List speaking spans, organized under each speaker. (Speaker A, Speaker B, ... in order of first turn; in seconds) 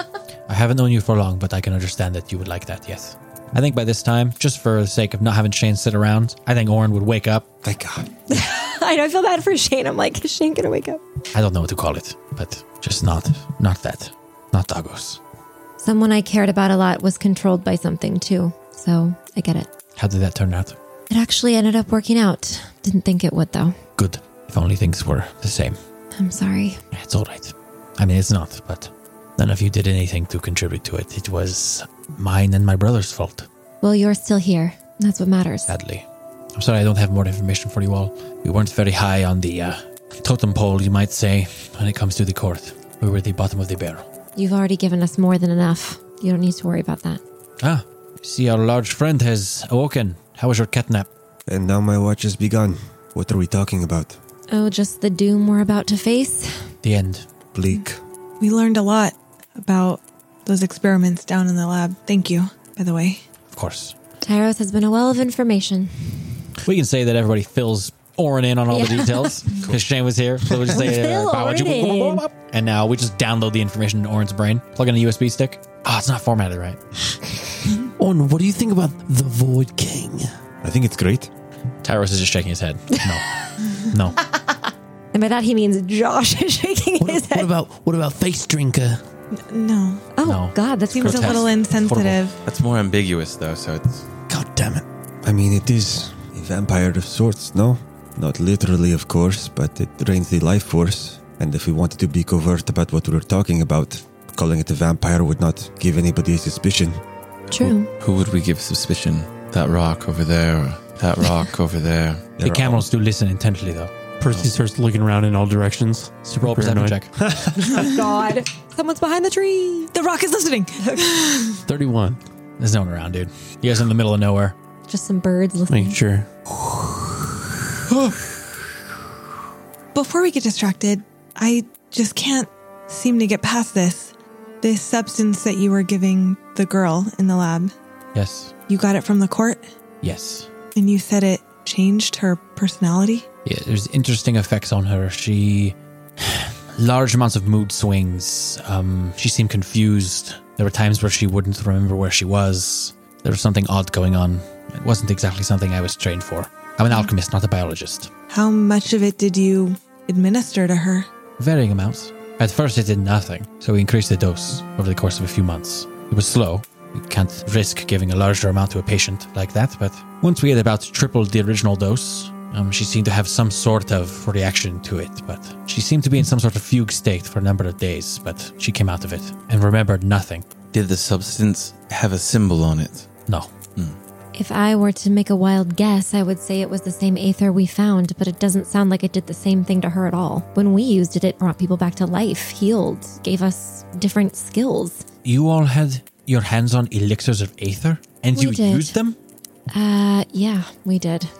Speaker A: 0.5-7.5, 11.3-15.2, 19.9-20.8, 24.0-25.8, 26.9-33.5, 35.7-36.0, 36.6-44.0, 47.6-51.1, 56.8-57.3, 63.5-63.9, 66.6-77.2, 81.8-84.2, 90.2-92.2, 112.4-113.9, 116.4-117.1, 122.6-124.6, 138.1-138.5, 140.0-140.5, 143.4-158.1, 161.4-180.5, 195.2-199.2
Speaker B: 7.6-8.1, 51.5-54.2, 57.5-58.0, 80.6-81.3, 95.2-107.0, 112.4-112.9, 117.2-117.8
Speaker C: 8.3-11.0, 15.8-19.7, 21.1-23.8, 26.2-26.8, 33.8-35.7, 44.4-47.2, 54.5-56.7, 64.2-66.5, 68.7-69.4, 70.6-72.2, 83.0-83.5, 84.3-84.6, 85.1-87.5, 90.2-91.5, 107.5-107.9, 117.6-119.9, 124.9-126.0, 184.3-195.1, 198.3-198.9, 199.7-201.3
Speaker D: 58.4-63.2, 89.3-90.1, 90.9-92.4, 119.9-121.6, 129.9-137.7, 138.7-139.6, 140.8-143.3, 158.3-161.1
Speaker E: 78.0-80.3, 87.0-89.0, 94.3-94.8, 114.2-117.0, 121.7-122.2, 125.7-126.3, 127.9-128.2
Speaker F: 92.5-94.1, 108.0-112.3, 180.7-183.1